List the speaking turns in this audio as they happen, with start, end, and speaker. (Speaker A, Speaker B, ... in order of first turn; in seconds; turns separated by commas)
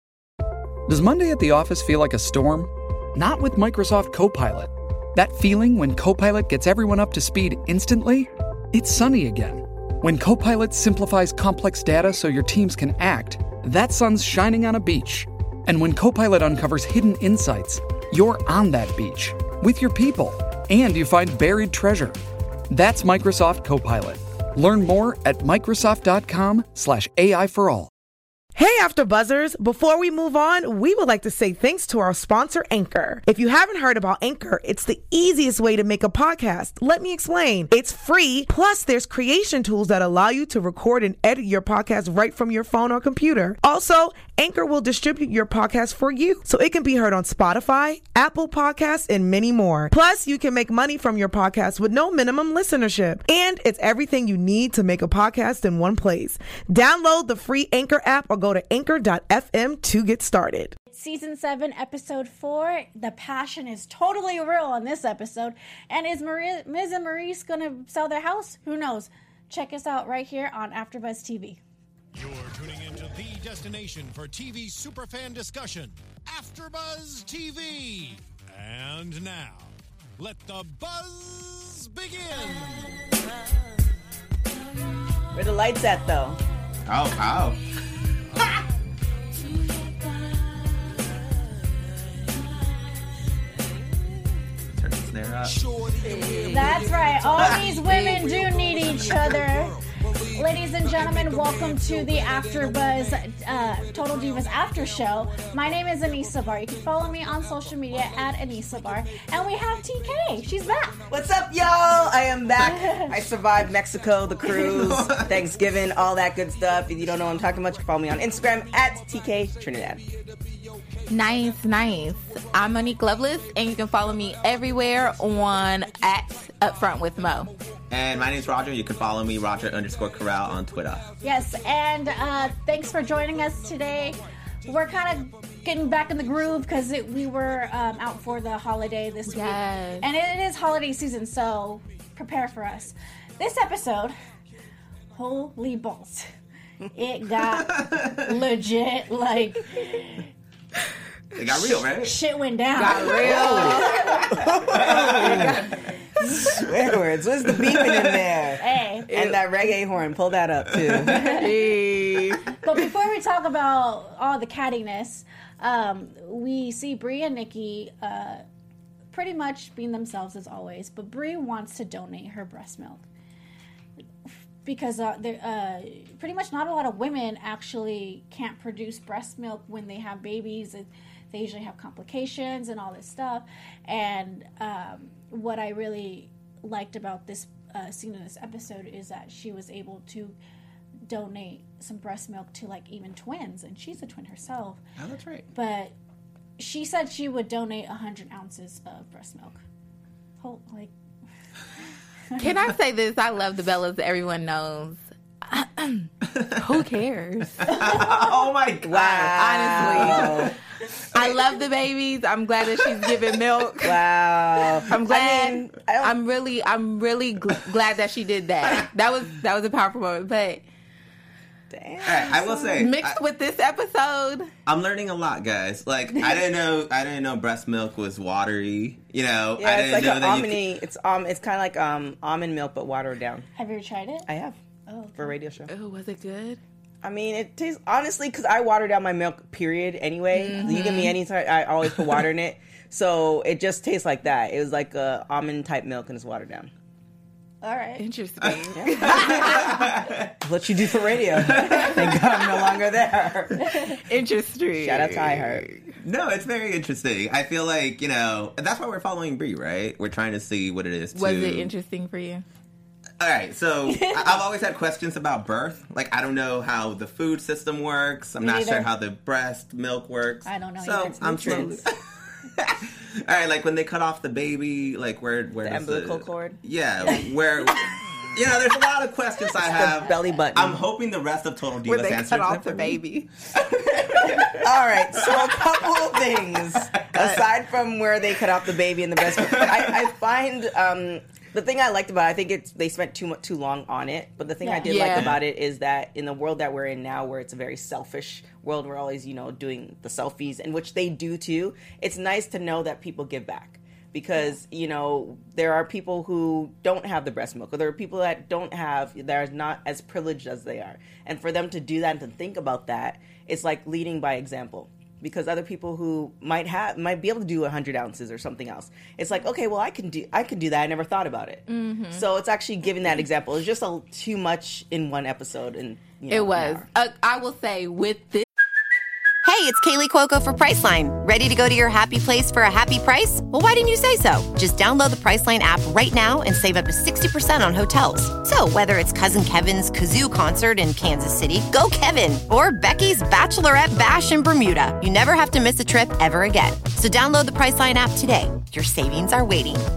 Speaker A: 0.9-22.1, Speaker A: 22.7-27.9, Speaker B: 28.5-60.7, Speaker C: 60.9-71.6, Speaker D: 72.1-82.9, Speaker E: 85.3-86.4, Speaker F: 86.8-87.6, Speaker F: 94.7-95.6, Speaker D: 95.6-96.6, Speaker C: 96.5-111.0, Speaker D: 98.7-99.5, Speaker E: 111.1-120.0, Speaker C: 112.6-113.1, Speaker F: 114.4-115.5, Speaker G: 121.1-127.5, Speaker F: 127.9-131.1, Speaker C: 131.2-144.1, Speaker G: 139.3-140.1, Speaker C: 145.1-146.3, Speaker C: 146.9-150.3, Speaker F: 147.7-148.1, Speaker F: 151.3-152.2, Speaker C: 151.9-154.8, Speaker G: 152.8-154.2, Speaker E: 153.2-155.6, Speaker F: 154.7-155.5, Speaker G: 155.2-155.8, Speaker E: 156.2-161.5, Speaker F: 157.8-158.1, Speaker C: 158.6-159.1, Speaker G: 159.1-159.4, Speaker C: 161.1-161.5, Speaker G: 161.1-162.5, Speaker C: 162.6-168.4, Speaker C: 169.1-173.0, Speaker C: 174.6-190.4, Speaker C: 191.1-194.8, Speaker F: 195.0-195.5, Speaker C: 195.5-195.9, Speaker C: 196.6-199.6, Speaker C: 200.4-200.9, Speaker G: 202.4-207.7, Speaker F: 206.2-206.8, Speaker F: 207.6-210.5, Speaker C: 207.7-208.5, Speaker E: 208.8-210.5, Speaker G: 209.2-210.4, Speaker G: 211.1-214.0, Speaker E: 213.8-216.2, Speaker G: 214.8-220.6, Speaker E: 221.7-222.8, Speaker F: 222.0-223.2, Speaker G: 222.8-224.5, Speaker F: 224.7-230.6, Speaker E: 229.6-233.5, Speaker C: 233.6-234.3, Speaker E: 234.3-234.6, Speaker C: 234.9-235.4, Speaker E: 235.2-235.7, Speaker G: 235.7-236.6, Speaker E: 237.0-246.7, Speaker G: 240.3-241.1, Speaker C: 247.6-248.0, Speaker G: 248.0-249.7, Speaker F: 248.4-250.3, Speaker E: 248.8-249.5, Speaker E: 250.4-253.7, Speaker F: 251.3-252.3, Speaker C: 253.6-254.0, Speaker G: 253.9-255.8, Speaker E: 254.8-255.7, Speaker F: 256.0-261.7, Speaker G: 261.1-262.4, Speaker F: 263.2-272.0, Speaker C: 263.9-264.4, Speaker C: 268.4-268.9, Speaker C: 270.4-271.8, Speaker F: 272.5-283.0, Speaker E: 275.6-276.6, Speaker E: 279.6-280.8, Speaker G: 281.9-283.3, Speaker F: 283.5-284.7, Speaker E: 284.2-326.8, Speaker F: 286.9-287.4, Speaker F: 289.2-290.1, Speaker C: 294.6-295.2, Speaker G: 294.8-295.3, Speaker G: 321.7-322.2, Speaker G: 326.3-328.4, Speaker H: 329.4-349.9